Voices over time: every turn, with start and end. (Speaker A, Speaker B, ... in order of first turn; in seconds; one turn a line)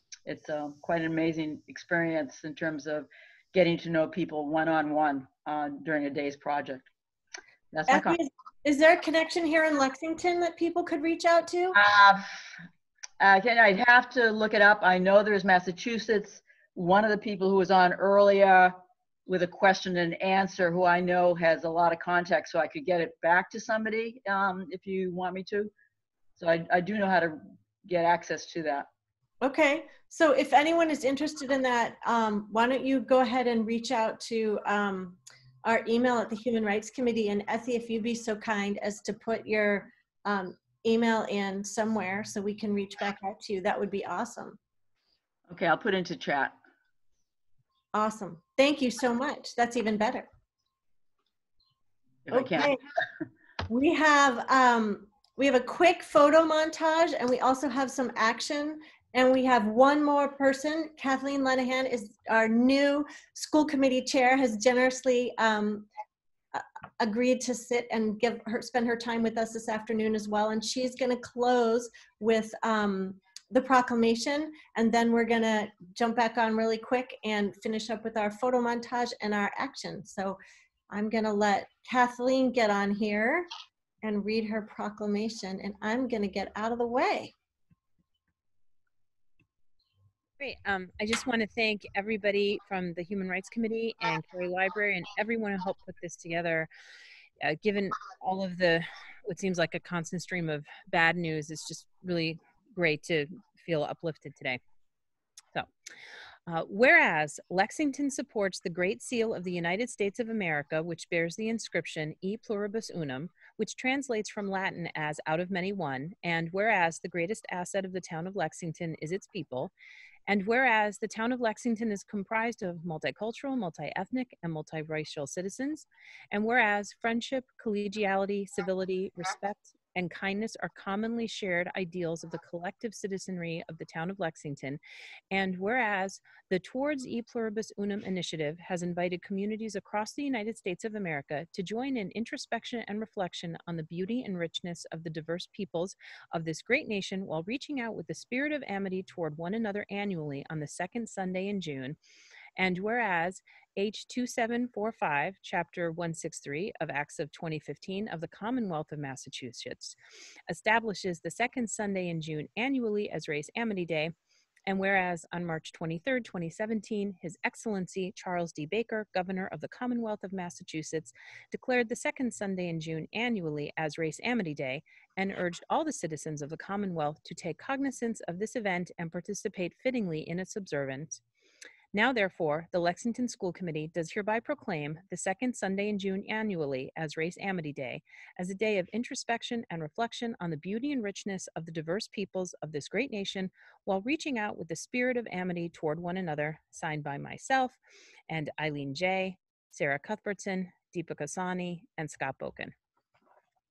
Speaker A: 0.2-6.9
Speaker A: 7.7-8.2
Speaker B: 7.9-11.8
Speaker A: 11.7-12.2
Speaker A: 13.2-18.8
Speaker A: 19.3-25.7
Speaker A: 26.4-28.9
Speaker B: 29.4-44.6
Speaker A: 45.5-46.5
Speaker B: 47.9-50.3
Speaker A: 52.3-52.8
Speaker B: 52.3-52.8
Speaker B: 53.7-65.9
Speaker B: 66.5-80.4
Speaker B: 80.9-83.5
Speaker B: 84.0-87.3
Speaker C: 90.4-96.7
Speaker C: 97.4-104.6
Speaker C: 106.5-119.7
Speaker C: 120.3-134.8
Speaker C: 135.3-151.9
Speaker C: 152.6-159.9
Speaker C: 160.5-164.1
Speaker C: 164.7-181.2
Speaker C: 181.9-202.7